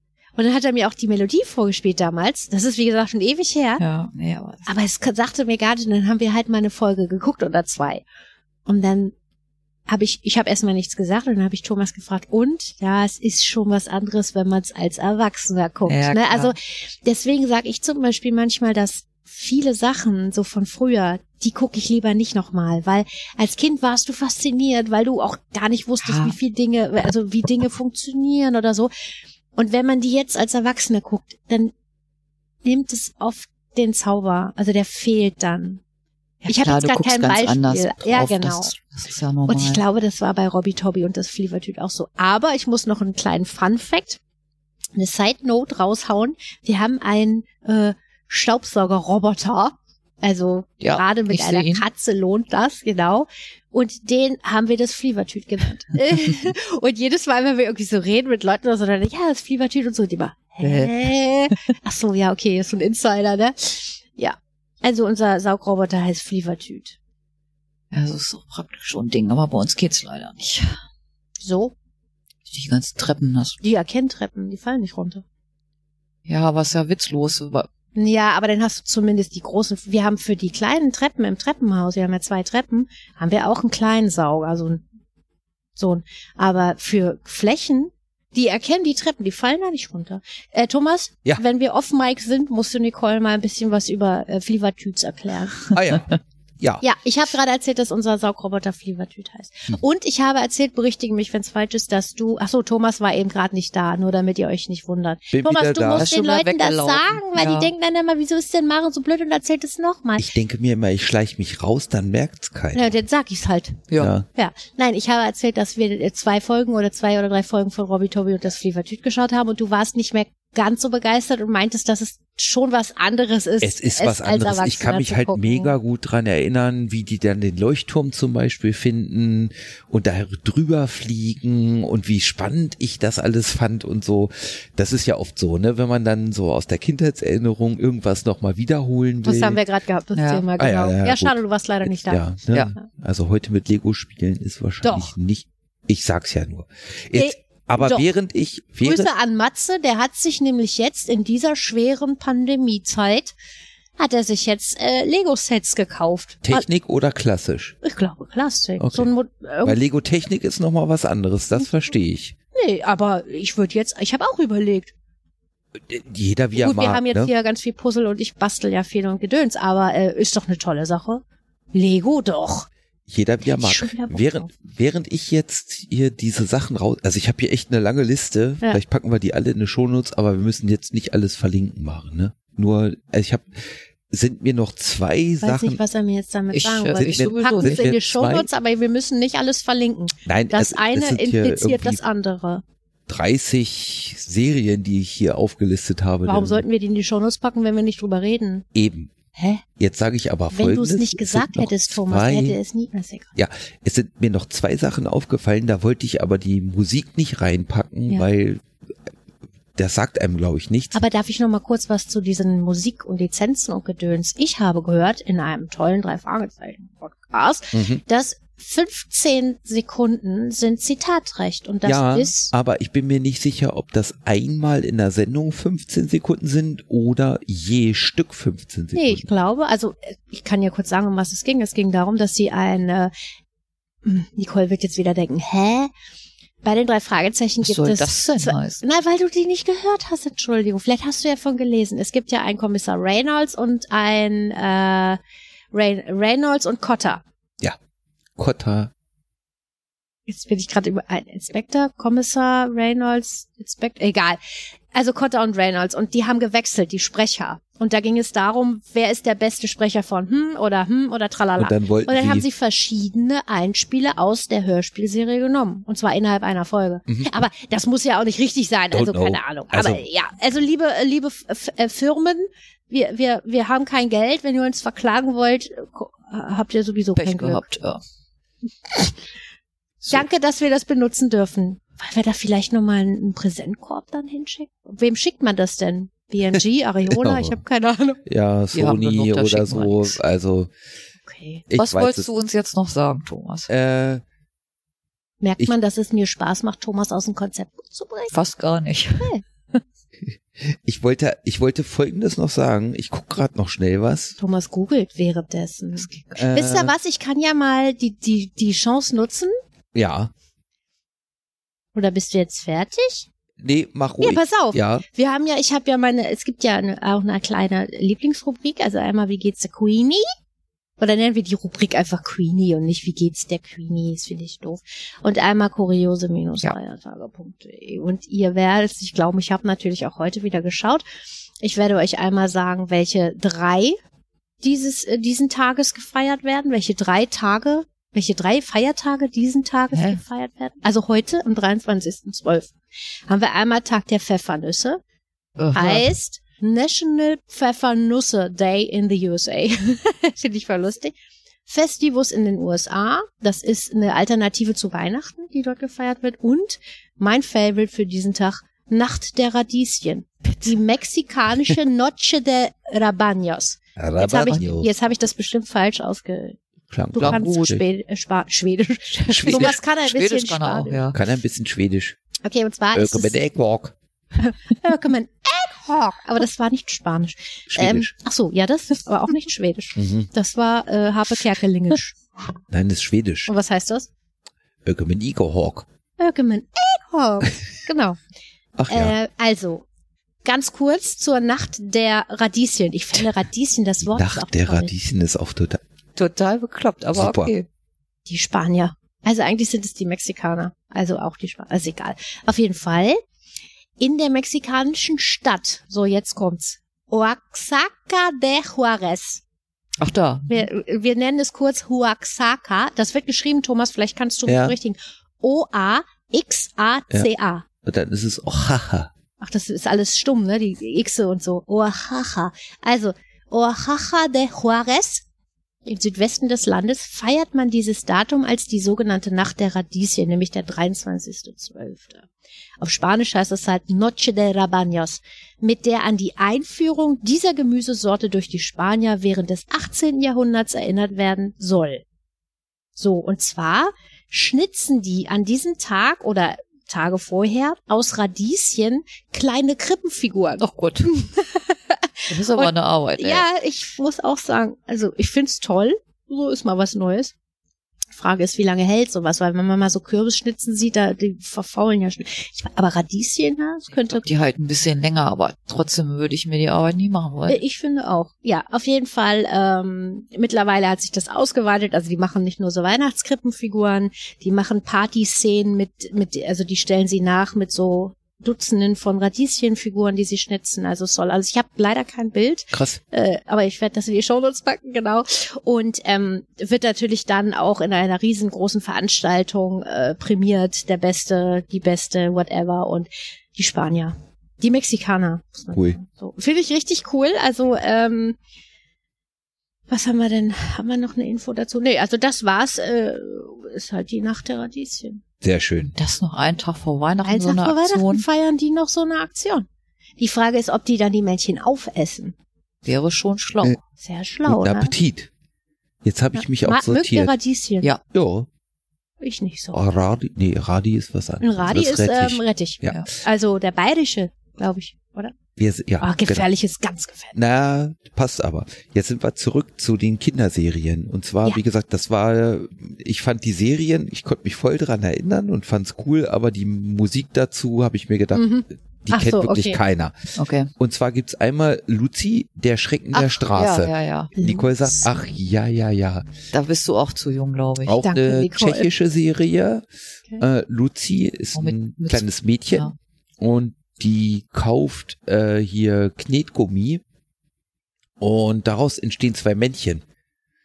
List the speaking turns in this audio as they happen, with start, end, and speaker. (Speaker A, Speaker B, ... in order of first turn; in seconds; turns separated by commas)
Speaker A: 0.4-3.8, Speaker B: 3.8-4.7, Speaker A: 4.7-8.0, Speaker A: 8.7-9.1, Speaker A: 9.9-28.9, Speaker B: 15.9-16.5, Speaker B: 26.0-26.4, Speaker A: 29.5-31.7, Speaker A: 32.6-35.8, Speaker A: 36.4-38.7, Speaker B: 36.4-39.8, Speaker A: 39.5-44.2, Speaker A: 45.0-67.0, Speaker B: 50.8-51.8, Speaker B: 60.6-61.5, Speaker B: 67.9-70.8, Speaker A: 71.4-71.7, Speaker B: 72.5-73.6, Speaker A: 73.6-75.2, Speaker B: 76.3-77.7, Speaker A: 78.0-84.8, Speaker A: 85.8-95.7, Speaker C: 95.7-96.8, Speaker A: 96.8-110.3, Speaker C: 105.3-106.1, Speaker B: 106.0-107.7, Speaker C: 110.2-113.0, Speaker A: 112.7-113.8, Speaker B: 113.9-114.1, Speaker C: 114.0-114.2, Speaker A: 114.3-125.8, Speaker C: 123.6-139.6, Speaker A: 139.2-142.9, Speaker B: 140.2-140.4, Speaker C: 140.6-149.1, Speaker A: 144.8-145.1, Speaker A: 147.1-148.1, Speaker A: 148.8-153.3, Speaker A: 154.0-156.7, Speaker C: 156.4-157.8, Speaker A: 157.8-159.8, Speaker C: 158.8-159.1, Speaker C: 159.6-162.3, Speaker A: 162.5-164.9, Speaker C: 165.8-167.3, Speaker A: 166.6-172.7, Speaker C: 173.1-183.5, Speaker A: 173.5-174.5, Speaker C: 184.1-185.8, Speaker A: 185.4-192.6, Speaker B: 186.5-187.9, Speaker C: 187.0-188.5, Speaker C: 190.2-192.0, Speaker C: 193.1-196.6, Speaker A: 196.2-198.6, Speaker C: 198.7-202.6, Speaker A: 200.5-203.3, Speaker C: 203.3-208.6, Speaker C: 209.8-211.0, Speaker A: 210.9-222.5, Speaker C: 217.7-218.0, Speaker C: 221.8-229.3, Speaker A: 228.9-233.1, Speaker A: 234.0-235.9, Speaker A: 236.6-245.2, Speaker B: 237.6-238.8, Speaker A: 245.7-247.2, Speaker C: 248.4-248.9, Speaker A: 250.3-254.4, Speaker A: 254.9-277.6, Speaker C: 261.6-262.5, Speaker C: 267.1-267.4, Speaker C: 268.9-270.0, Speaker B: 277.1-278.0, Speaker A: 280.1-288.2, Speaker C: 287.1-287.6, Speaker C: 288.2-290.7, Speaker B: 288.7-290.2, Speaker A: 291.2-291.6, Speaker C: 291.7-292.3, Speaker B: 291.8-293.7, Speaker C: 293.7-294.2, Speaker A: 295.4-298.3, Speaker B: 298.3-299.3, Speaker C: 300.2-304.3, Speaker A: 304.4-309.5, Speaker B: 305.9-306.4, Speaker C: 306.4-306.9, Speaker C: 309.9-310.3, Speaker A: 311.9-313.3, Speaker C: 313.6-315.0, Speaker A: 314.2-320.2, Speaker A: 321.0-331.0, Speaker A: 331.6-334.0, Speaker A: 334.6-342.7, Speaker B: 339.9-340.2, Speaker A: 343.3-345.0, Speaker B: 345.6-346.1, Speaker A: 345.7-351.1, Speaker A: 351.7-366.6, Speaker C: 363.9-364.9, Speaker B: 364.5-364.8, Speaker C: 366.9-367.8, Speaker A: 367.1-371.0, Speaker B: 367.2-367.8, Speaker C: 369.3-369.8, Speaker B: 369.4-371.2, Speaker C: 371.1-372.2, Speaker A: 372.4-373.4, Speaker C: 372.9-373.9, Speaker A: 374.4-382.2, Speaker C: 377.7-378.1, Speaker C: 380.0-380.3, Speaker C: 382.7-383.5, Speaker A: 383.5-384.1, Speaker C: 384.8-385.9, Speaker A: 386.2-388.2, Speaker C: 388.8-389.1, Speaker A: 388.9-389.8, Speaker A: 390.4-394.9, Speaker C: 394.1-395.8, Speaker B: 396.1-397.6, Speaker C: 397.1-397.5, Speaker A: 398.2-403.2, Speaker A: 404.0-409.4, Speaker B: 410.0-410.7, Speaker A: 410.5-417.6, Speaker C: 414.4-414.8, Speaker C: 417.8-419.1, Speaker A: 419.4-425.2, Speaker A: 425.8-432.2, Speaker A: 432.8-442.0, Speaker A: 442.9-457.3, Speaker B: 450.6-451.1, Speaker B: 452.3-453.4, Speaker A: 458.1-464.2, Speaker B: 464.0-467.6, Speaker A: 467.5-498.4, Speaker C: 482.7-483.0, Speaker A: 499.9-505.2, Speaker C: 505.4-505.9, Speaker B: 505.8-508.2, Speaker A: 507.2-509.7, Speaker A: 510.2-512.3, Speaker B: 512.8-513.8, Speaker A: 514.0-514.9, Speaker C: 514.5-515.3, Speaker C: 516.0-517.3, Speaker A: 516.4-517.9, Speaker C: 518.1-518.5, Speaker A: 519.2-519.8, Speaker C: 519.7-523.0, Speaker A: 521.4-525.3, Speaker C: 525.6-526.5, Speaker A: 526.0-527.4, Speaker C: 527.3-546.2, Speaker A: 538.3-539.8, Speaker B: 540.4-540.7, Speaker B: 543.1-544.3, Speaker A: 544.4-545.1, Speaker B: 546.5-548.0, Speaker C: 547.8-549.9, Speaker A: 548.0-548.9, Speaker C: 550.4-557.0, Speaker B: 551.5-552.9, Speaker C: 558.2-560.0